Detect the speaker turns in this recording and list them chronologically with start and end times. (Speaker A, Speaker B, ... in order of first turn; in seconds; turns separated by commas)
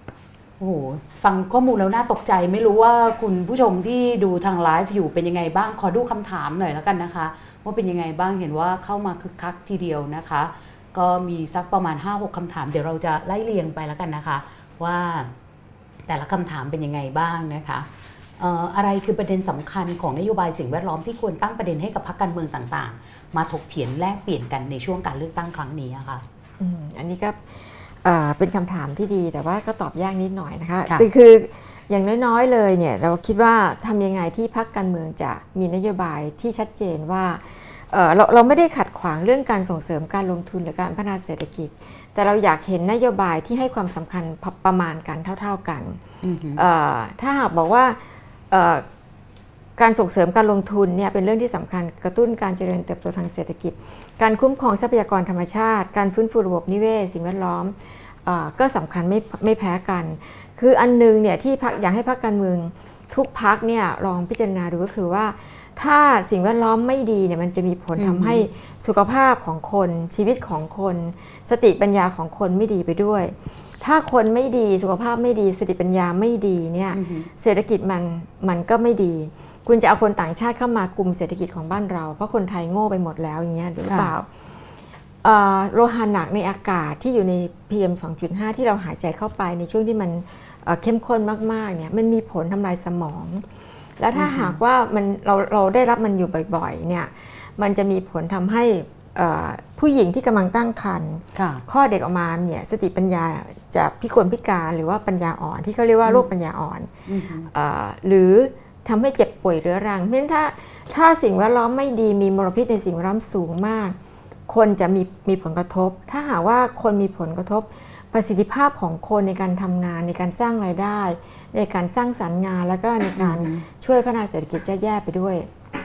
Speaker A: 0.6-15.3, Speaker A: 16.1-17.9, Speaker A: 18.4-26.2, Speaker B: 26.6-46.0, Speaker A: 46.2-46.6, Speaker B: 46.5-48.8, Speaker B: 49.8-84.5, Speaker A: 68.0-68.4, Speaker A: 76.9-77.3, Speaker A: 83.8-84.1, Speaker B: 85.2-106.9, Speaker A: 94.1-94.6, Speaker A: 101.3-101.6, Speaker A: 107.1-107.5, Speaker B: 107.5-113.9, Speaker B: 114.5-125.5, Speaker A: 123.2-123.6